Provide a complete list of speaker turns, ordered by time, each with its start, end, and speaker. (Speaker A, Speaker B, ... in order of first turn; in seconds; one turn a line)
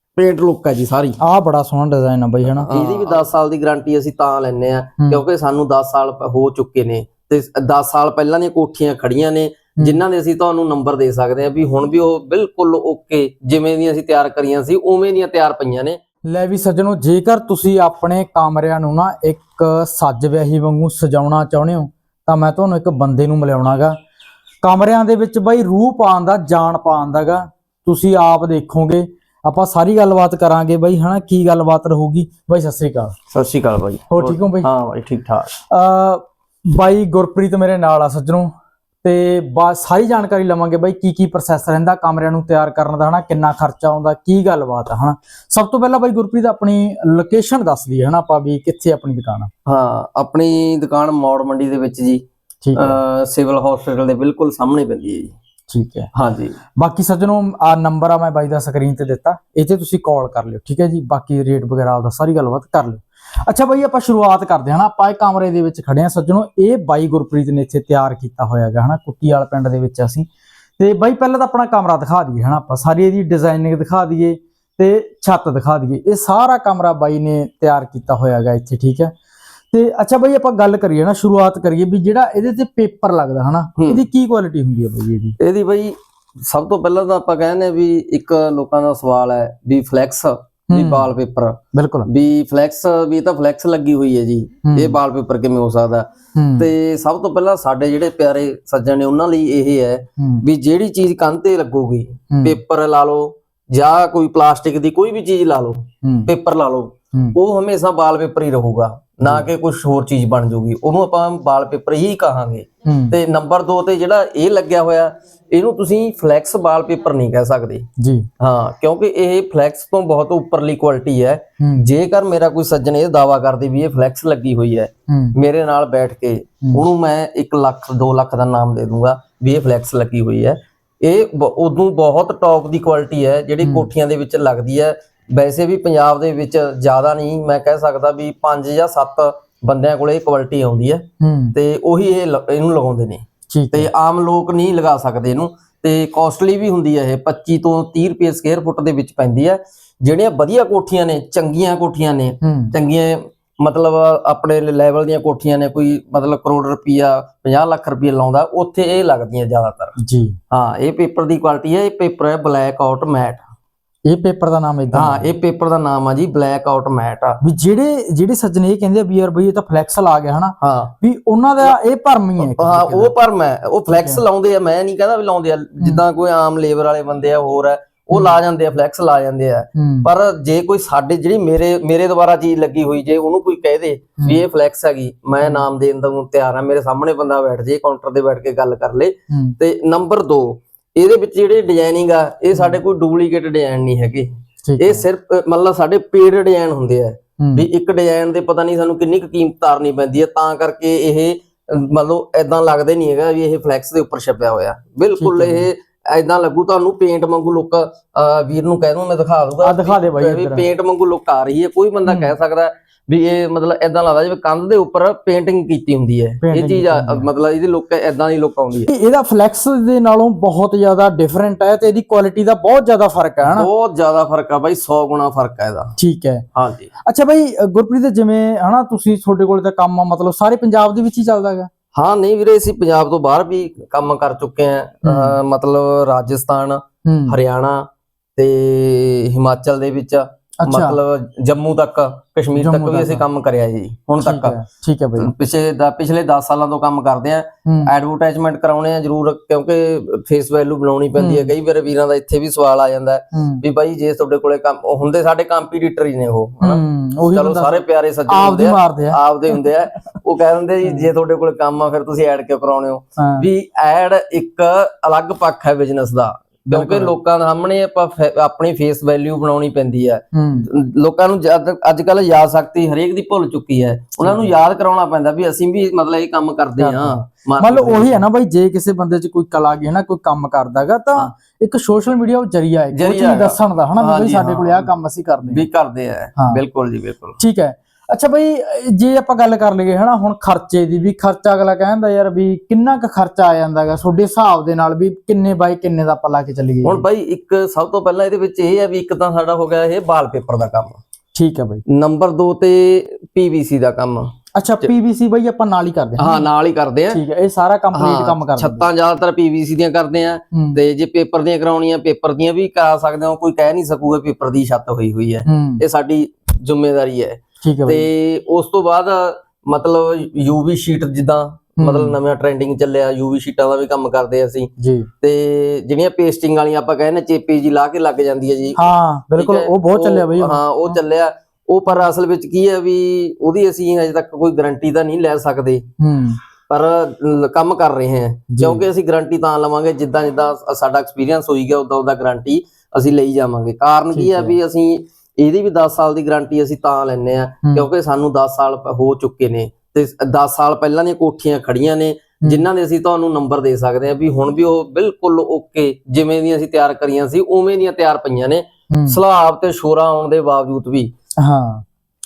Speaker A: 0.2-1.2
Speaker B: 1.2-3.1
Speaker A: 2.5-16.0
Speaker B: 16.3-23.9
Speaker B: 24.6-33.1
Speaker A: 33.3-35.5
Speaker B: 34.1-34.7
Speaker B: 35.7-38.5
Speaker B: 39.0-49.5
Speaker A: 49.7-52.2
Speaker B: 52.6-53.0
Speaker A: 52.8-55.4
Speaker B: 55.7-56.1
Speaker A: 56.1-56.6
Speaker B: 56.8-70.3
Speaker B: 70.8-79.1
Speaker B: 79.7-85.4
Speaker A: 85.4-96.1
Speaker B: 90.7-91.1
Speaker B: 91.7-92.1
Speaker B: 94.7-95.0
Speaker B: 96.4-96.7
Speaker A: 96.6-117.9
Speaker B: 100.2-100.5
Speaker B: 102.3-102.6
Speaker B: 106.0-106.3
Speaker B: 109.2-109.5
Speaker B: 112.8-113.2
Speaker B: 118.0-118.3
Speaker A: 118.4-159.9
Speaker B: 121.6-121.9
Speaker B: 125.1-125.4
Speaker B: 133.6-133.9
Speaker B: 141.2-141.6
Speaker B: 143.5-143.9
Speaker B: 152.4-152.7
Speaker B: 160.0-160.4
Speaker A: 160.5-163.4
Speaker B: 164.1-165.3
Speaker A: 164.9-167.4
Speaker B: 167.4-173.1
Speaker A: 170.6-170.9
Speaker A: 172.4-218.9
Speaker B: 173.9-174.2
Speaker B: 178.1-178.4
Speaker B: 179.8-180.1
Speaker B: 189.3-189.6
Speaker B: 192.5-192.8
Speaker B: 194.7-195.1
Speaker B: 197.4-197.7
Speaker B: 205.2-205.7
Speaker B: 209.6-210.7
Speaker B: 212.1-212.3
Speaker B: 216.4-217.3
Speaker B: 218.9-223.7
Speaker A: 223.4-225.9
Speaker B: 226.0-226.5
Speaker A: 226.6-226.9
Speaker B: 227.1-231.7
Speaker A: 232.0-244.6
Speaker B: 235.1-235.4
Speaker B: 237.1-237.4
Speaker B: 240.6-241.0
Speaker B: 242.6-243.2
Speaker B: 244.2-245.3
Speaker A: 245.2-278.2
Speaker B: 251.2-251.5
Speaker B: 253.3-253.6
Speaker B: 256.6-259.6
Speaker B: 260.8-261.1
Speaker B: 263.2-263.5
Speaker B: 266.7-267.1
Speaker B: 270.3-270.7
Speaker B: 274.2-274.5
Speaker B: 276.8-285.6
Speaker A: 282.9-284.9
Speaker A: 285.5-287.4
Speaker B: 287.4-297.0
Speaker A: 296.9-301.0
Speaker B: 301.4-301.8
Speaker A: 301.9-304.3
Speaker B: 304.6-306.5
Speaker A: 306.2-307.2
Speaker B: 307.1-308.9
Speaker A: 307.9-324.7
Speaker B: 310.5-310.8
Speaker B: 315.5-315.8
Speaker B: 317.6-318.1
Speaker B: 321.8-322.2
Speaker B: 324.8-325.1
Speaker A: 325.2-328.8
Speaker B: 328.8-331.0
Speaker A: 329.4-335.9
Speaker B: 336.0-336.4
Speaker A: 336.7-361.1
Speaker B: 338.5-338.9
Speaker B: 344.1-344.6
Speaker B: 358.9-359.2
Speaker B: 361.4-361.9